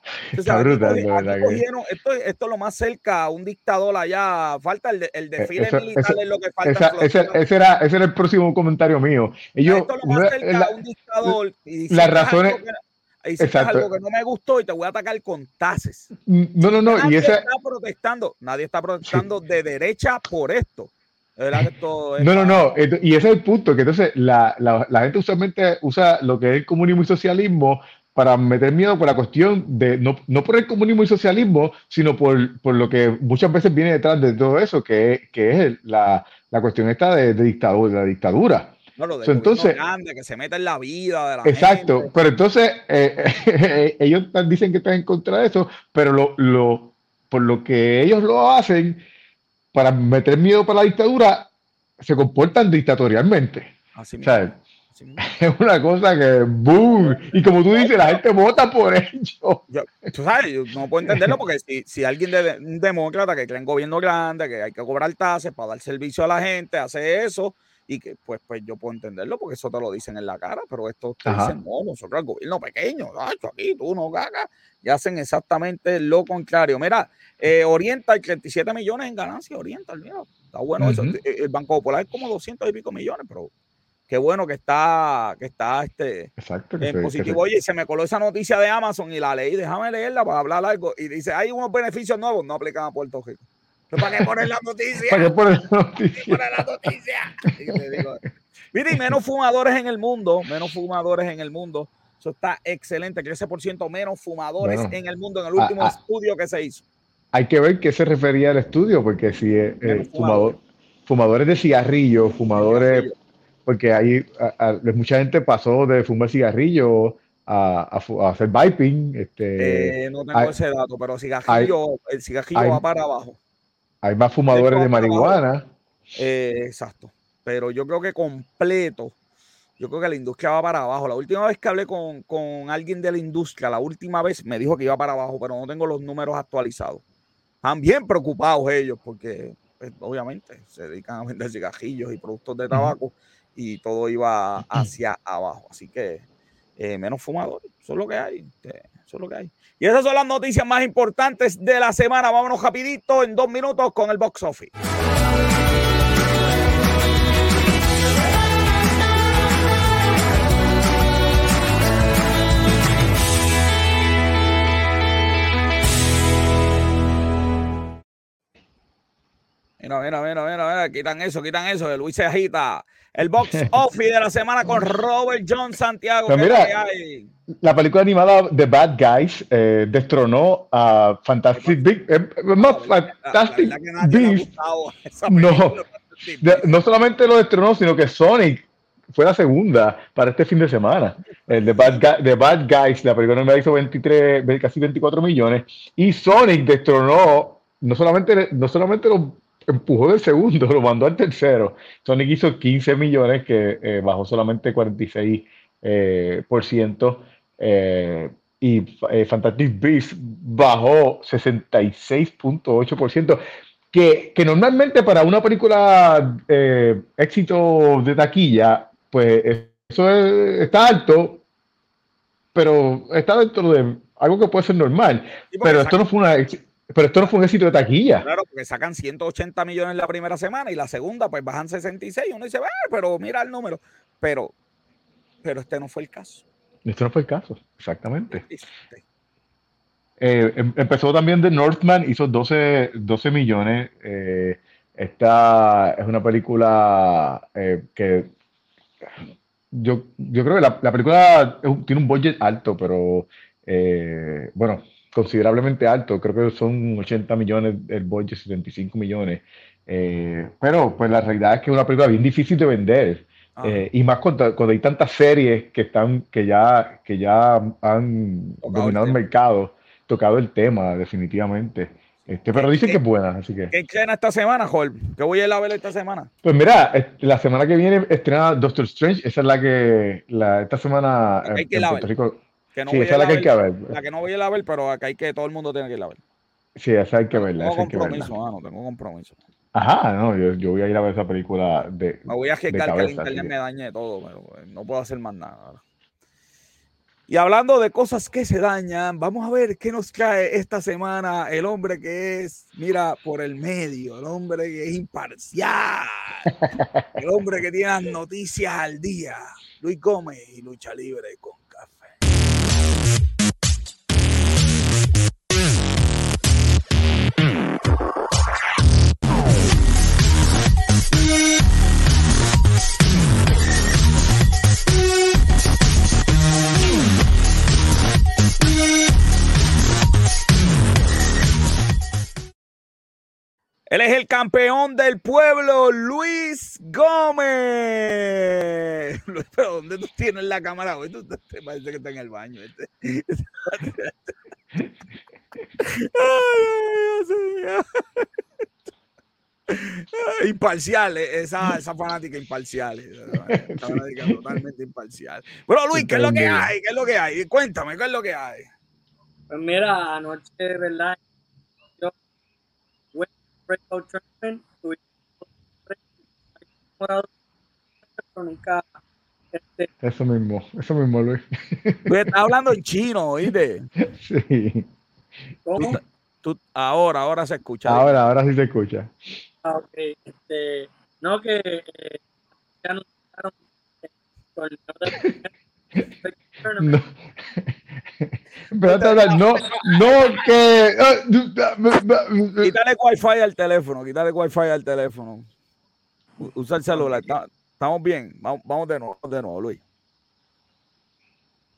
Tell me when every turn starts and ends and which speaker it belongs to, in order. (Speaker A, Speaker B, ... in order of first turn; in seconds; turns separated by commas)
Speaker A: 0.3-1.6, Speaker B: 0.3-7.4, Speaker A: 5.4-11.3, Speaker B: 9.6-16.1, Speaker A: 11.9-12.6, Speaker A: 13.4-13.9, Speaker A: 16.2-17.4, Speaker B: 16.8-22.7, Speaker A: 22.2-38.7, Speaker B: 39.0-42.1, Speaker A: 39.2-39.8, Speaker A: 41.4-49.0, Speaker A: 49.7-53.7, Speaker B: 53.9-54.4, Speaker A: 54.2-54.6, Speaker B: 54.9-55.3, Speaker A: 55.2-59.6, Speaker B: 56.7-58.2, Speaker B: 59.7-83.5, Speaker A: 61.1-61.3, Speaker A: 71.2-71.5, Speaker A: 80.8-81.2, Speaker B: 84.1-95.3, Speaker A: 86.4-87.4, Speaker A: 94.0-94.3, Speaker A: 95.1-96.4, Speaker B: 96.1-98.2, Speaker B: 98.7-106.8, Speaker A: 104.6-105.0, Speaker A: 105.6-105.9, Speaker A: 107.3-113.1, Speaker B: 109.8-110.6, Speaker B: 112.7-113.1, Speaker A: 113.7-120.5, Speaker B: 119.6-123.4, Speaker A: 122.5-122.8, Speaker A: 124.0-125.7, Speaker B: 124.5-125.4, Speaker B: 126.2-129.1, Speaker B: 129.8-137.0, Speaker B: 137.6-146.2, Speaker B: 146.8-154.7, Speaker B: 169.8-177.3, Speaker A: 176.3-176.7, Speaker A: 177.6-184.5, Speaker B: 181.5-181.8, Speaker B: 182.6-186.8, Speaker A: 185.3-185.8, Speaker A: 186.4-213.4, Speaker B: 191.4-192.1, Speaker A: 213.9-221.4, Speaker A: 222.5-228.2, Speaker B: 225.5-226.0, Speaker B: 228.2-234.5, Speaker B: 235.4-236.4, Speaker A: 236.8-238.4, Speaker B: 238.3-239.0, Speaker A: 240.2-248.3, Speaker A: 249.7-273.7, Speaker B: 263.6-263.9, Speaker B: 268.6-269.2, Speaker B: 272.2-273.0, Speaker B: 273.7-276.3, Speaker A: 276.4-283.9, Speaker B: 281.4-282.1, Speaker B: 282.7-286.2, Speaker A: 286.8-288.3, Speaker B: 287.3-289.4, Speaker A: 289.7-293.5, Speaker B: 292.2-295.8, Speaker B: 297.3-306.5, Speaker A: 306.5-307.1, Speaker B: 307.1-312.1, Speaker B: 333.9-344.4, Speaker B: 345.8-348.3, Speaker B: 349.7-358.7, Speaker A: 353.5-354.4, Speaker A: 355.9-356.7, Speaker C: 359.5-361.2, Speaker C: 363.1-366.0, Speaker C: 366.6-367.3, Speaker C: 368.2-368.9, Speaker C: 369.5-369.9, Speaker A: 370.0-372.1, Speaker B: 372.1-373.9, Speaker A: 374.0-374.9, Speaker C: 375.6-376.0, Speaker B: 375.8-378.2, Speaker A: 377.9-379.1, Speaker C: 379.6-382.2, Speaker C: 382.8-386.9, Speaker A: 386.8-392.7, Speaker B: 388.8-390.3, Speaker B: 392.6-395.5, Speaker B: 396.4-399.8